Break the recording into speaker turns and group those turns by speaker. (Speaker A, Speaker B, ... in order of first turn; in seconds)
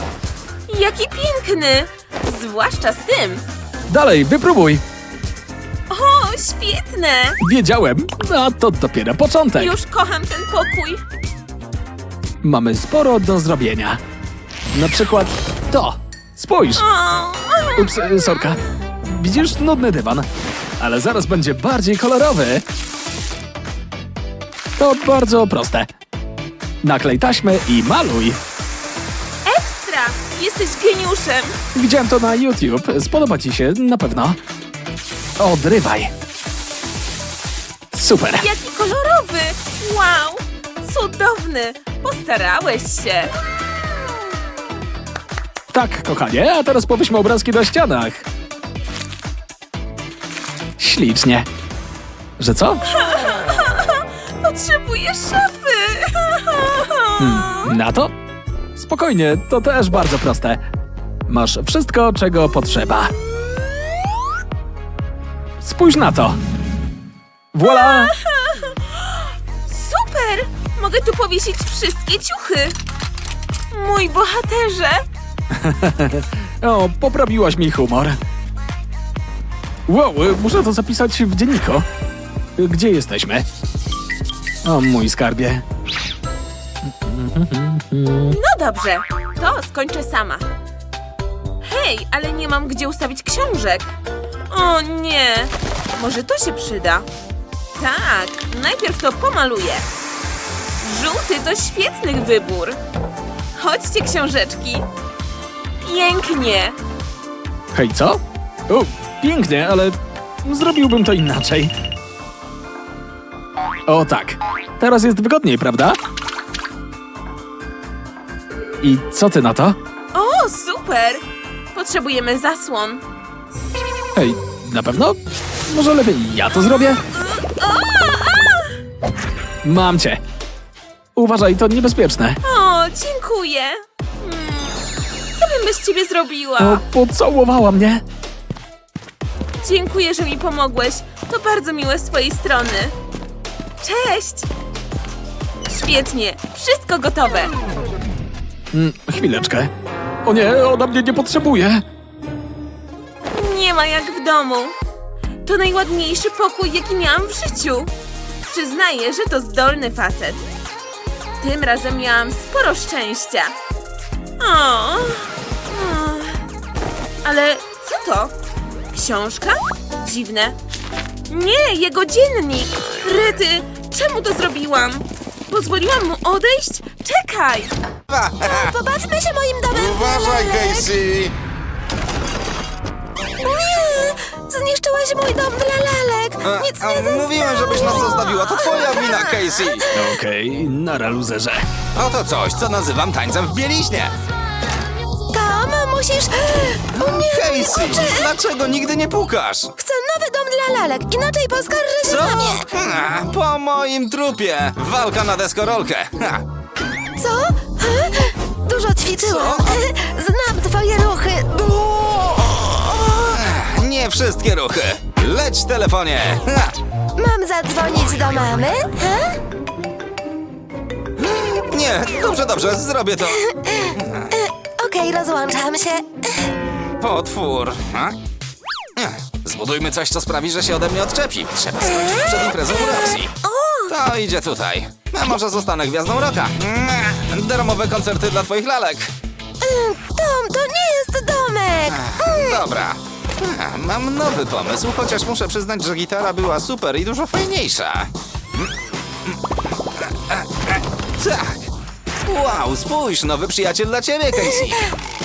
Speaker A: 0.7-3.4, 5.9-7.4, 9.6-11.0, 16.8-17.9, 29.4-31.6, 38.4-43.3, 52.9-57.7, 67.6-72.8, 73.7-75.0, 88.3-90.5, 91.6-93.9, 94.5-97.1, 97.8-99.9, 100.8-102.8, 103.6-104.9, 105.8-106.8, 120.1-123.0, 127.1-128.8, 132.4-134.8, 135.3-136.8, 139.6-142.9, 143.8-144.5, 145.7-147.5, 153.3-154.8, 155.4-157.9, 158.4-160.4, 161.4-163.6, 164.4-166.4, 167.2-168.3, 168.9-170.6, 171.3-177.8
Speaker B: 3.9-4.8, 7.4-9.8, 12.4-14.0, 14.7-16.8, 17.8-20.3, 20.8-22.6, 24.8-25.9, 26.8-28.4, 31.7-34.4, 35.4-36.1, 37.9-38.5, 45.7-48.2, 50.8-51.5, 52.4-52.8, 57.2-58.1, 58.8-60.6, 61.3-63.1, 65.6-66.4, 67.5-68.1, 75.5-78.2, 79.9-81.8, 82.6-83.5, 84.6-85.6, 86.8-88.4, 107.7-111.7, 113.9-116.0, 118.8-119.8, 124.2-125.2, 125.7-127.0, 129.6-130.2, 131.2-132.4, 136.6-138.0, 148.7-149.7, 150.2-151.8, 189.9-191.7
Speaker C: 178.1-178.8, 179.8-181.4, 186.4-189.9, 191.9-194.2, 196.9-199.7, 202.0-206.4, 209.2-209.8, 212.4-216.7, 221.2-223.4, 223.9-224.3, 227.0-228.2, 229.0-233.3, 233.9-239.1, 241.9-248.7, 250.0-251.7, 252.2-254.9
Speaker D: 178.4-180.9, 183.4-190.1, 195.3-198.3, 199.8-202.7, 207.2-212.8, 217.2-219.4, 223.3-226.5, 231.8-234.0, 239.6-242.7, 254.3-254.8